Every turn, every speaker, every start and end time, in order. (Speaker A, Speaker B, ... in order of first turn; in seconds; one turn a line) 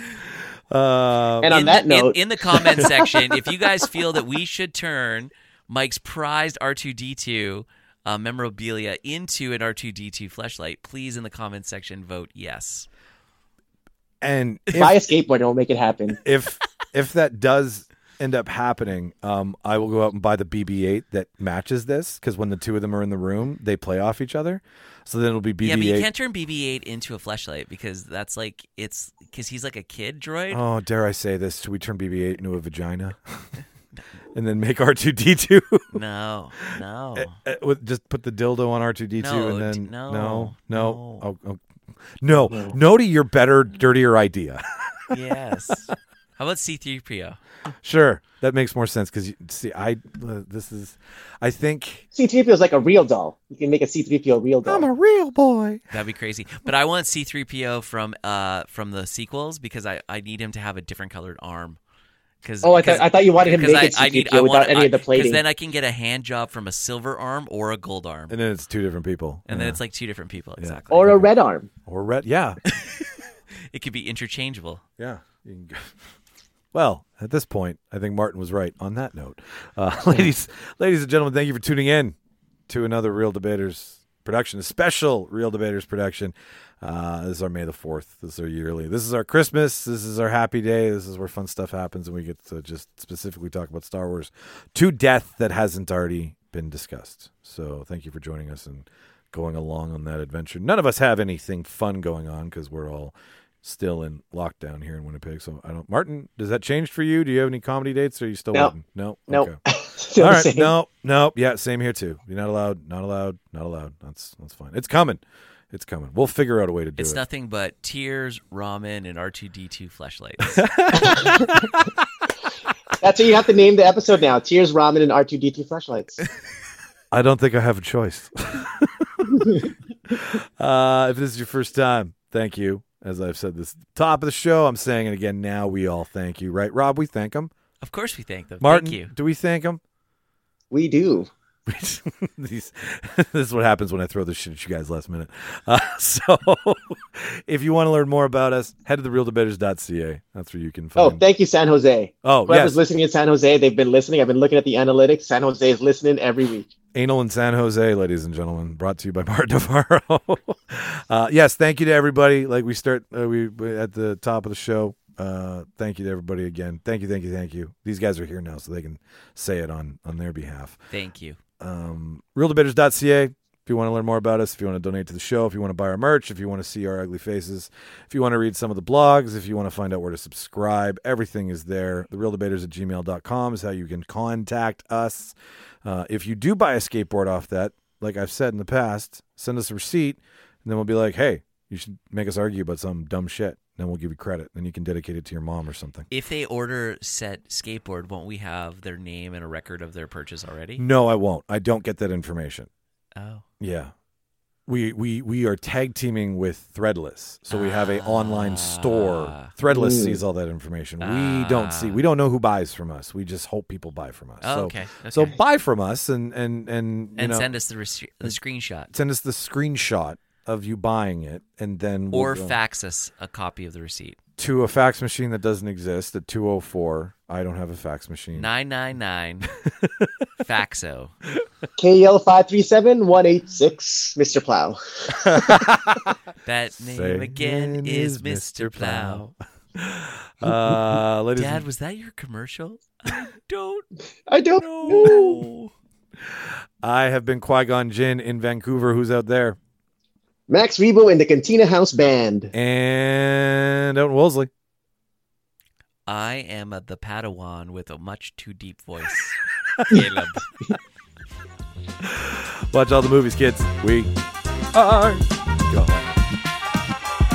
Speaker A: 0.7-1.7
Speaker B: 1.4-3.3
Speaker C: 1.5-12.9
Speaker A: 14.2-14.9
Speaker B: 14.7-16.2
Speaker A: 16.2-26.1
Speaker C: 25.6-30.6
Speaker A: 30.5-33.5
Speaker A: 34.3-36.0
Speaker C: 35.9-37.4
Speaker A: 36.6-41.6
Speaker C: 39.2-41.2
Speaker A: 42.2-45.2
Speaker B: 42.5-42.8
Speaker C: 45.1-47.4
Speaker A: 47.8-52.0
Speaker B: 52.1-54.9
Speaker A: 54.7-55.8
Speaker C: 55.9-61.8
Speaker C: 62.4-68.3
Speaker B: 62.6-65.4
Speaker A: 68.3-69.8
Speaker C: 69.5-71.2
Speaker A: 70.6-71.3
Speaker B: 70.9-71.7
Speaker A: 71.9-72.6
Speaker C: 72.7-74.8
Speaker A: 75.0-76.0
Speaker A: 76.7-82.2
Speaker A: 82.7-109.6
Speaker B: 109.3-110.7
Speaker A: 110.2-117.2
Speaker C: 117.0-121.1
Speaker A: 120.5-122.0
Speaker B: 121.0-121.6
Speaker B: 123.0-126.2
Speaker A: 127.1-137.5
Speaker C: 137.8-139.1
Speaker A: 138.6-139.8
Speaker B: 140.7-141.3
Speaker A: 141.7-151.2
Speaker B: 151.0-156.7
Speaker A: 152.2-152.8
Speaker A: 156.9-170.8
Speaker C: 170.9-171.4
Speaker A: 171.6-196.1
Speaker C: 196.1-200.8
Speaker A: 200.8-202.7
Speaker C: 203.2-203.4
Speaker A: 203.6-203.9
Speaker A: 204.7-217.5
Speaker C: 207.5-209.5
Speaker B: 209.7-210.2
Speaker C: 211.0-212.0
Speaker C: 214.4-215.4
Speaker C: 217.2-218.9
Speaker A: 218.9-222.6
Speaker C: 222.1-224.2
Speaker A: 224.4-228.5
Speaker C: 228.3-229.5
Speaker A: 229.8-230.1
Speaker C: 230.4-231.1
Speaker B: 231.8-235.7
Speaker A: 235.1-236.2
Speaker C: 236.4-239.2
Speaker A: 236.8-241.7
Speaker C: 241.4-243.8
Speaker B: 244.3-245.4
Speaker C: 244.6-245.7
Speaker A: 246.2-249.6
Speaker B: 250.5-252.5
Speaker A: 252.5-254.5
Speaker C: 256.1-259.4
Speaker C: 259.9-260.5
Speaker A: 262.0-264.1
Speaker A: 264.7-266.2